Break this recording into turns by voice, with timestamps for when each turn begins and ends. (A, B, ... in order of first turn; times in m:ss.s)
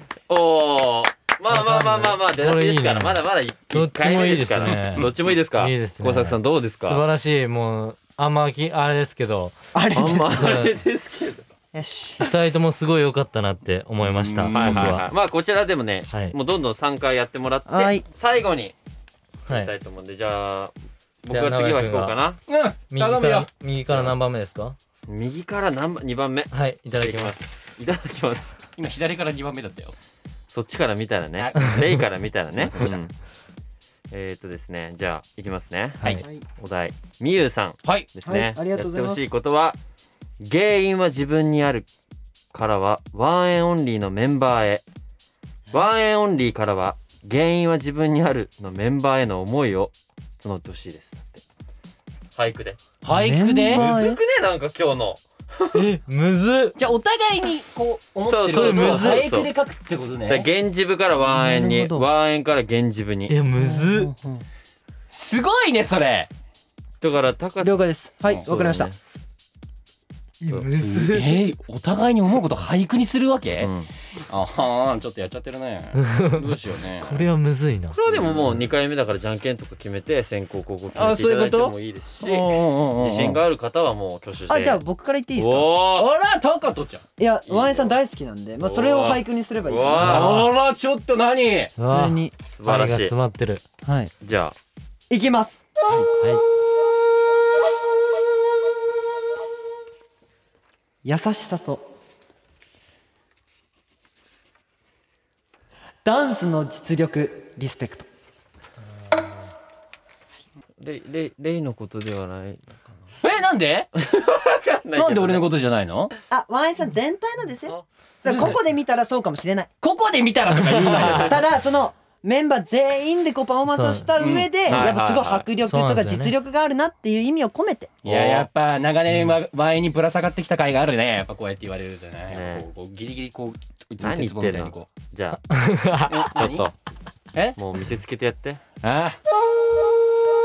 0:00.3-0:07.0 A
0:01.5-0:09.6 B
0:04.8-0:05.1 C
0:09.7-0:10.5 D
0:09.9-0:11.5 A
0:10.3-0:10.8 B
0:11.7-0:12.3 D
0:12.2-0:15.0 B
0:14.0-0:15.0 C
0:14.5-0:18.8 A
0:16.1-0:16.4 B
0:17.7-0:18.0 D
0:19.5-0:22.4 A
0:21.3-0:22.2 B
0:22.5-0:24.0 C
0:22.9-0:24.8 B
0:25.1-0:28.6 A
0:26.5-0:27.4 B
0:28.8-0:30.0 C
0:30.5-0:33.1 A
0:31.4-0:32.0 C
0:32.5-0:33.0 C
0:34.1-0:39.8 A
0:37.8-0:38.1 C
0:38.3-0:39.3 D
0:40.4-0:41.9 A
0:42.5-0:44.8 A
0:45.7-0:51.4 A
0:52.4-0:52.8 A
0:53.0-0:53.9 C
0:53.1-0:54.2 D
0:53.7-0:55.8 A
0:55.7-0:56.8 B
0:56.8-1:00.5 C
0:58.2-0:59.5 A
0:58.5-0:59.3 B
1:00.3-1:03.4 A
1:01.2-1:02.1 D
1:03.3-1:04.1 B
1:03.6-1:04.4 D
1:05.1-1:06.3 C
1:07.0-1:09.0 A
1:07.6-1:08.9 D
1:10.4-1:11.4 D
1:10.8-1:13.7 C
1:10.8-1:11.2 B
1:13.6-1:13.9 A
1:14.3-1:17.3 C
1:16.0-1:18.0 B
1:17.9-1:24.8 A
1:18.1-1:18.6 C
1:21.0-1:23.4 C
1:24.5-1:25.8 D
1:25.4-1:26.1 A
1:26.0-1:27.0 C
1:27.2-1:30.4 D
1:27.5-1:28.0 A
1:28.6-1:30.5 A
1:30.0-1:31.8 C
1:30.0-1:30.5 B
1:31.8-1:33.6 B
1:31.8-1:32.3 D
1:32.5-1:33.1 A
1:33.8-1:34.1 D
1:34.2-1:34.6 A
1:35.1-1:35.7 D
1:41.0-1:41.8 D
1:46.0-1:48.1 D
1:50.8-1:52.7 A
1:53.2-1:53.9 C
1:54.0-1:55.5 A
1:55.0-1:56.1 C
1:56.3-1:59.7 D
1:58.2-1:58.6 C
1:59.8-2:01.4 C
2:00.8-2:01.4 A
2:01.1-2:08.0 D
2:03.7-2:04.1 B
2:04.2-2:04.9 C
2:04.7-2:05.5 A
2:05.6-2:06.3 B
2:08.0-2:14.9 C
2:08.1-2:08.5 A
2:12.3-2:12.7 A
2:14.0-2:15.4 A
2:15.5-2:16.3 B
2:16.1-2:16.7 C
2:16.2-2:16.7 A
2:17.6-2:18.6 A
2:18.8-2:19.2 C